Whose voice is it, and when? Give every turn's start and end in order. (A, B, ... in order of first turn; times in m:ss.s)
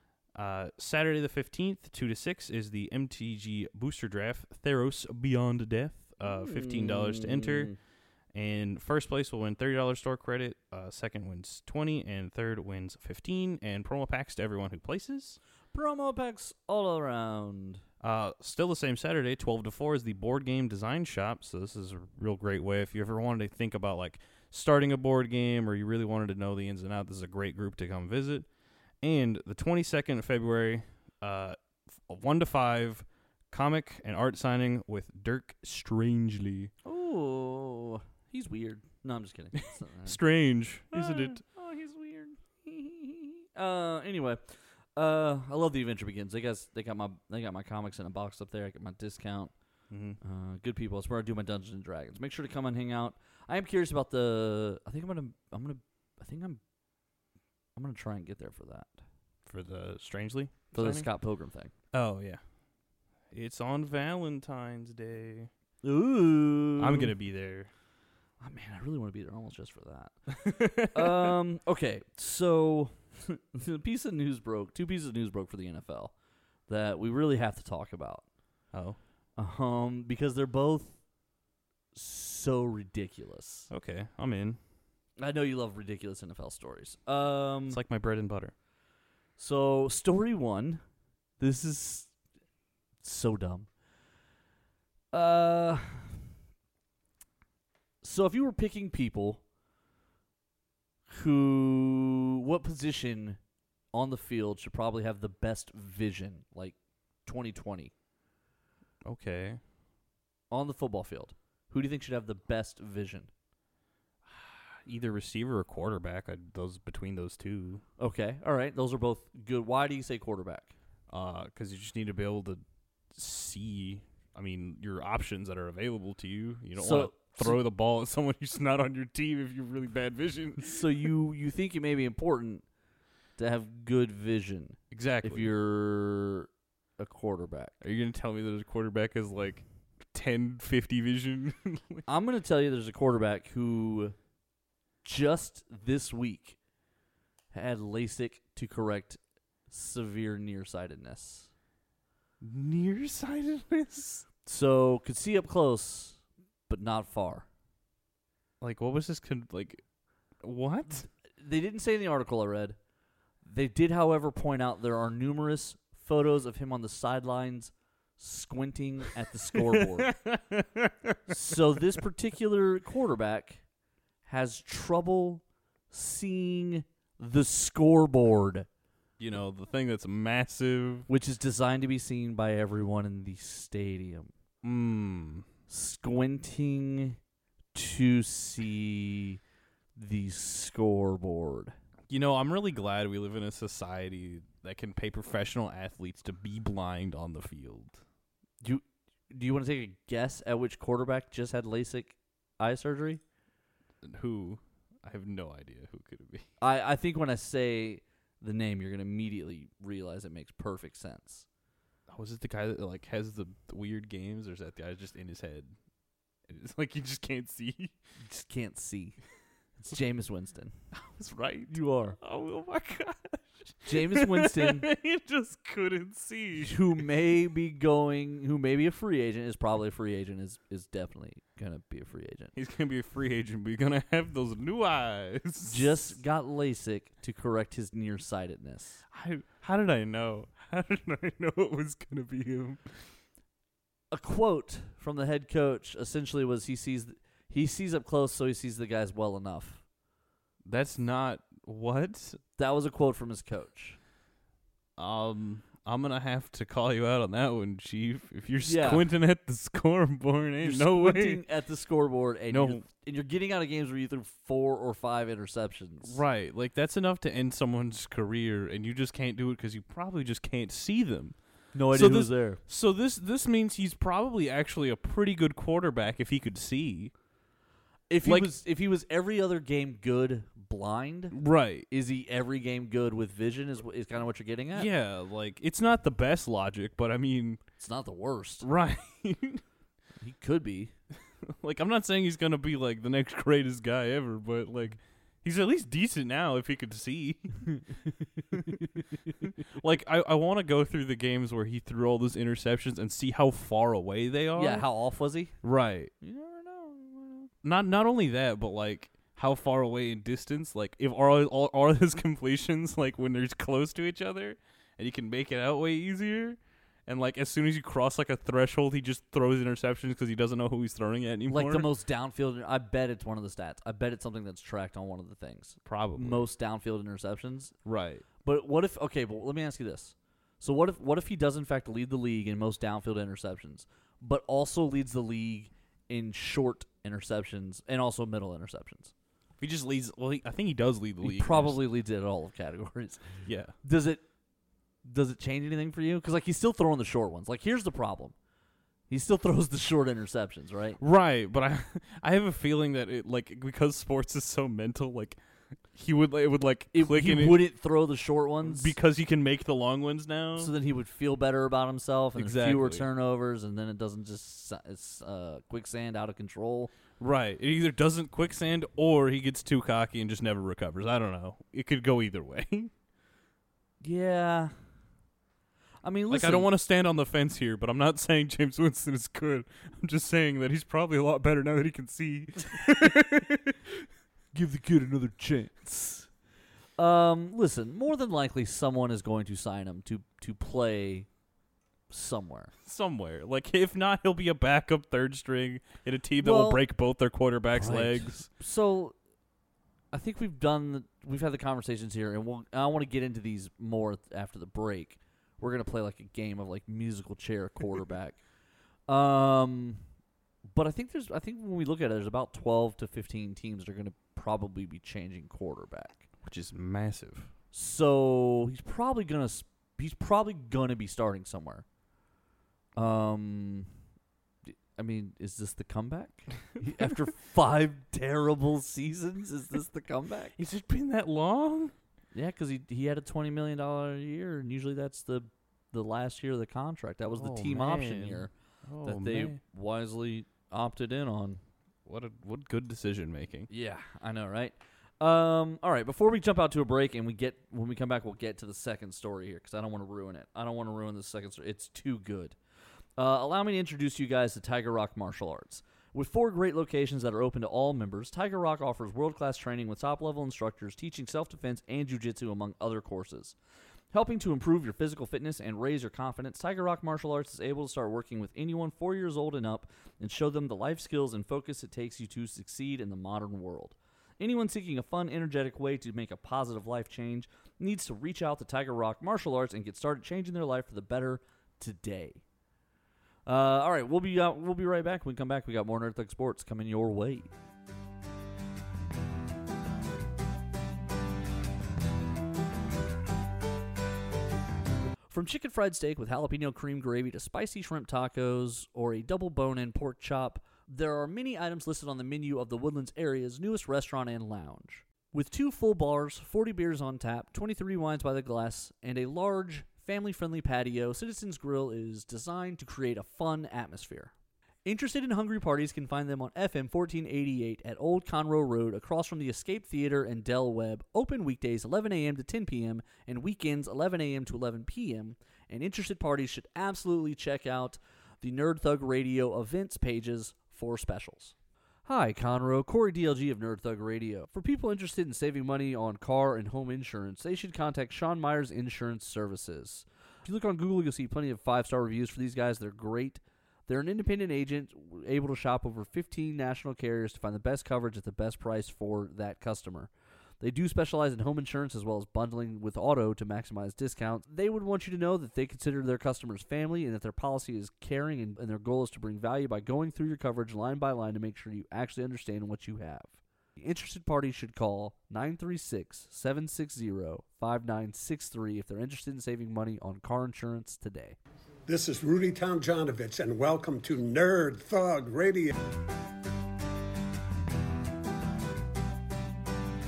0:00.3-0:07.8 A
0:06.2-0:07.8 B
0:08.3-0:15.4 A
0:15.7-0:17.8 B
0:18.0-0:36.7 A
0:36.8-0:40.4 B
0:40.0-0:41.4 A
0:40.9-0:56.6 B
0:49.9-0:50.2 A
0:57.8-0:59.0 B
0:59.5-1:01.2 A
1:00.7-1:01.7 B
1:01.9-1:05.5 A
1:05.8-1:07.1 B
1:06.8-1:07.7 A
1:08.4-1:16.2 B
1:10.5-1:11.3 A
1:16.7-1:18.3 B
1:18.7-1:19.0 A
1:19.4-1:21.1 B
1:21.9-1:23.7 B
1:23.7-1:24.6 A
1:25.2-1:27.8 B
1:27.7-1:28.6 A
1:29.4-1:30.8 B
1:31.4-1:32.2 B
1:33.0-1:33.7 B
1:35.1-1:36.2 B
1:38.0-1:39.4 B
1:41.1-1:43.4 B
1:43.9-1:47.9 B
1:49.0-1:49.6 A
1:50.5-1:53.3 B
1:54.2-1:57.8 A
1:58.0-2:00.8 B
2:01.1-2:10.8 A
2:06.8-2:07.6 B
2:10.6-2:12.7 B
2:13.4-2:17.8 B
2:14.9-2:15.5 A
2:17.8-2:22.0 A
2:22.1-2:24.2 B
2:25.0-2:26.6 B
2:27.5-2:31.5 B
2:32.4-2:34.3 A
2:34.4-2:37.5 B
2:38.6-2:41.1 A
2:41.4-2:42.8 B
2:43.4-2:50.2 B
2:50.0-2:51.3 A
2:51.3-2:53.7 B
2:54.2-2:58.7 B
2:59.2-3:01.1 A
3:01.1-3:04.3 B
3:04.6-3:05.5 A
3:05.7-3:07.2 B
3:07.7-3:09.4 B
3:10.0-3:11.7 B
3:12.1-3:18.0 A
3:18.6-3:23.2 B
3:24.0-3:26.5 A
3:26.6-3:31.5 B
3:32.1-3:35.8 A
3:36.5-3:38.0 A
3:38.2-3:39.2 B
3:39.8-3:40.8 B
3:40.9-3:47.0 A
3:41.7-3:42.2 B
3:43.8-3:44.9 B
3:46.6-3:52.5 B
3:52.6-3:56.2 A
3:55.7-3:59.0 B
3:59.1-4:03.2 A
4:04.1-4:09.8 B
4:10.6-4:12.4 A
4:12.6-4:14.0 B
4:15.0-4:21.4 A
4:18.6-4:19.0 B
4:20.6-4:26.2 B
4:22.5-4:22.9 A
4:26.0-4:37.2 A
4:31.7-4:32.6 B
4:38.1-4:44.9 B
4:38.2-4:38.5 A
4:41.3-4:41.9 A
4:44.8-4:47.7 A
4:47.8-4:48.7 B
4:48.6-4:49.6 A
4:50.2-4:50.9 B
4:51.4-4:58.0 A
4:59.7-5:04.9 A
5:04.6-5:07.5 B
5:05.6-5:06.1 A
5:07.6-5:21.9 A
5:21.5-5:27.8 B
5:25.8-5:26.5 A
5:27.8-5:28.3 A
5:28.4-5:39.1 B
5:39.6-5:41.8 A
5:41.2-5:44.2 B
5:43.4-5:43.8 A
5:45.0-5:48.4 B
5:49.1-5:51.0 B
5:51.0-5:57.6 A
5:56.9-5:59.0 B
5:58.6-6:00.7 A
6:00.6-6:06.9 B
6:02.4-6:03.1 A
6:07.2-6:12.9 A
6:14.0-6:14.9 B
6:16.0-6:16.7 B
6:16.3-6:23.8 A
6:24.5-6:26.4 B
6:27.0-6:31.3 B
6:32.1-6:32.7 B
6:32.8-6:38.5 A
6:36.4-6:36.9 B
6:37.7-6:39.2 B
6:40.1-6:48.4 B
6:49.1-6:50.1 B
6:50.7-6:56.3 B
6:56.4-6:57.5 A
6:57.7-7:01.9 B
7:03.0-7:04.0 B
7:04.7-7:10.6 B
7:10.6-7:12.0 A
7:12.3-7:21.6 B
7:17.4-7:19.6 A
7:22.0-7:23.7 A
7:23.7-7:32.6 B
7:33.2-7:43.6 B
7:44.1-8:02.4 B
8:03.5-8:07.5 B
8:15.3-8:34.3 B
8:34.8-8:51.6 B
8:52.1-9:31.4 B
9:31.9-9:35.7 C